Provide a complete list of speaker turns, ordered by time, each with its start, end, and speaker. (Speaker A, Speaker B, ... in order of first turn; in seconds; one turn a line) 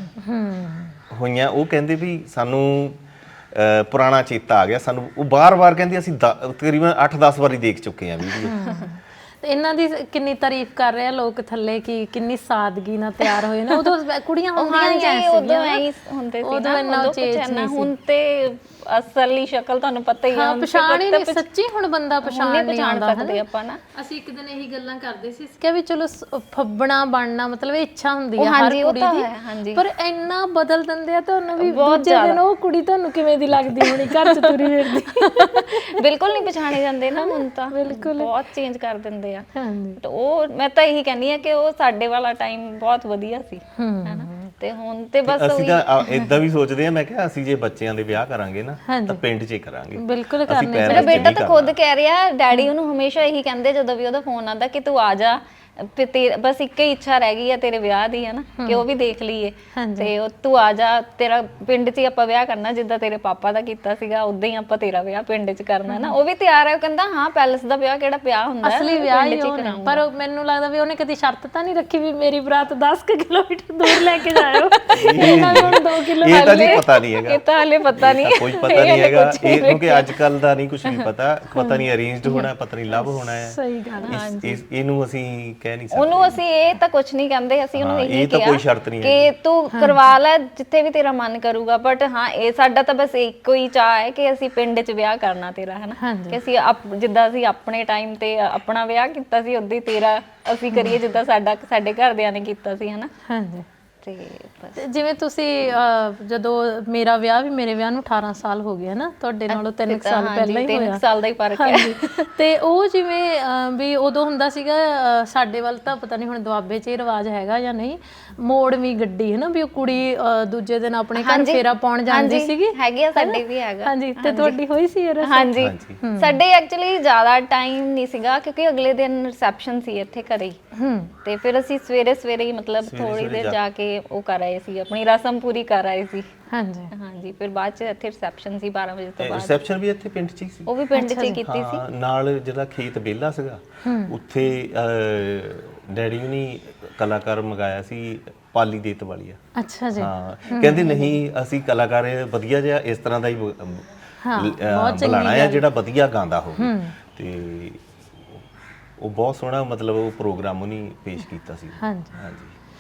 Speaker A: 0.2-1.0
Speaker B: 1.1-8.6
Speaker A: 8.4-15.8
Speaker C: 8.6-8.9
Speaker C: 13.2-13.9
Speaker C: 14.6-21.4
Speaker A: 16.4-17.9
Speaker A: 20.3-23.4
Speaker C: 22.2-23.8
Speaker A: 23.9-38.3
Speaker C: 28.4-29.9
Speaker C: 31.6-32.4
Speaker C: 34.0-39.5
Speaker A: 39.5-40.0
Speaker C: 40.0-45.9
Speaker A: 43.8-44.5
Speaker B: 45.3-51.8
Speaker A: 46.1-46.3
Speaker A: 48.9-49.2
Speaker A: 50.0-51.3
Speaker C: 50.8-70.0
Speaker A: 58.6-58.9
Speaker A: 59.8-60.1
Speaker A: 65.9-66.2
Speaker A: 68.6-76.8
Speaker C: 73.9-75.7
Speaker B: 74.9-77.4
Speaker C: 76.2-80.3
Speaker B: 77.9-83.6
Speaker A: 81.5-84.2
Speaker C: 84.0-84.6
Speaker B: 84.1-86.4
Speaker C: 85.9-103.1
Speaker B: 87.8-89.3
Speaker A: 89.7-90.0
Speaker A: 96.0-96.4
Speaker A: 100.7-101.0
Speaker A: 103.3-103.7
Speaker C: 104.0-104.8
Speaker A: 104.8-126.4
Speaker C: 109.5-112.3
Speaker C: 121.2-124.6
Speaker C: 125.2-130.6
Speaker B: 125.6-126.0
Speaker A: 130.8-131.1
Speaker C: 131.2-136.3
Speaker B: 132.8-133.6
Speaker A: 136.5-136.9
Speaker C: 136.9-139.6
Speaker B: 139.2-140.7
Speaker C: 140.7-141.8
Speaker A: 140.9-141.4
Speaker B: 141.4-149.4
Speaker A: 143.8-144.1
Speaker A: 149.6-151.2
Speaker B: 150.0-157.8
Speaker A: 154.2-155.7
Speaker A: 156.6-156.9
Speaker B: 159.0-162.6
Speaker A: 161.8-162.2